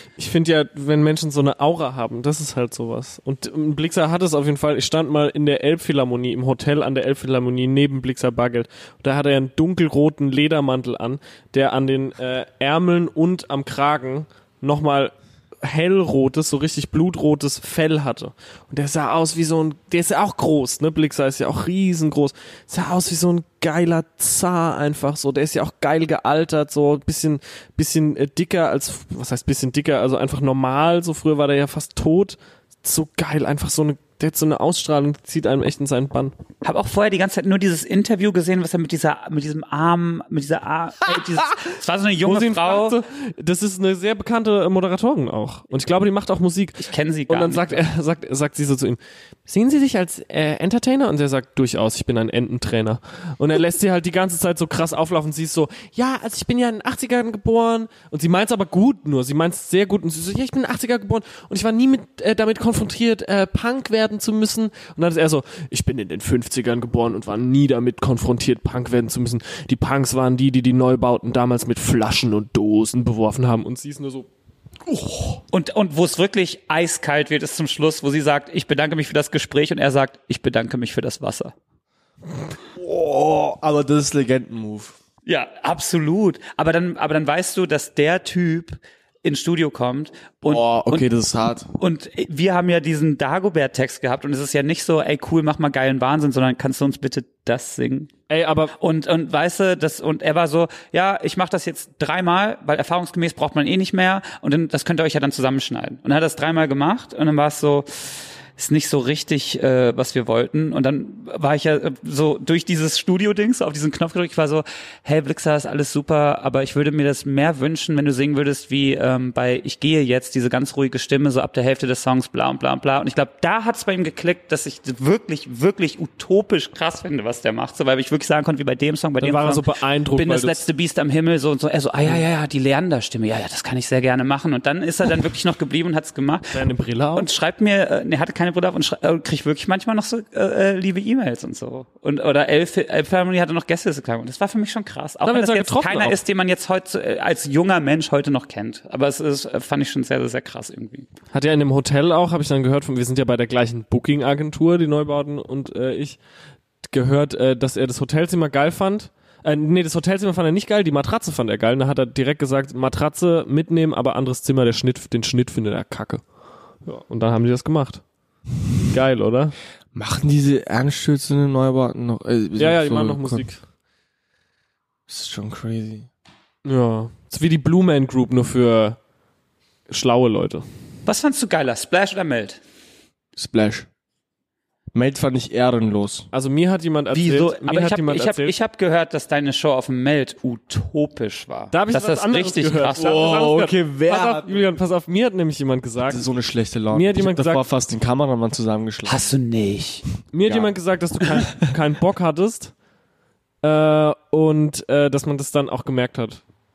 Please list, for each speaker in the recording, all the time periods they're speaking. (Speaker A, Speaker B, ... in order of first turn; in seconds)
Speaker A: 0.2-36.3, 42.2-74.3, 74.9-75.4, 98.3-98.7, 129.2-130.7, 136.5-137.3, 145.2-146.2, 151.3-156.2, 156.8-166.2, 166.8-168.0, 168.9-169.6, 172.6-173.6, 176.6-179.0, 179.9-180.7, 186.3-188.5, 191.7-196.2, 196.9-197.6, 200.3-202.7, 203.6-206.4
Speaker B: 36.6-43.0, 46.8-47.9, 75.5-81.5, 85.3-91.1, 91.7-98.1, 98.8-136.6, 137.2-151.1, 181.1-182.6, 187.1-193.3, 199.1-200.1
Speaker C: 82.8-85.0, 90.5-91.7, 169.9-173.4, 175.1-176.1, 183.4-183.9, 184.9-186.3, 193.0-194.7, 196.1-199.3, 200.4-200.7, 201.3-201.7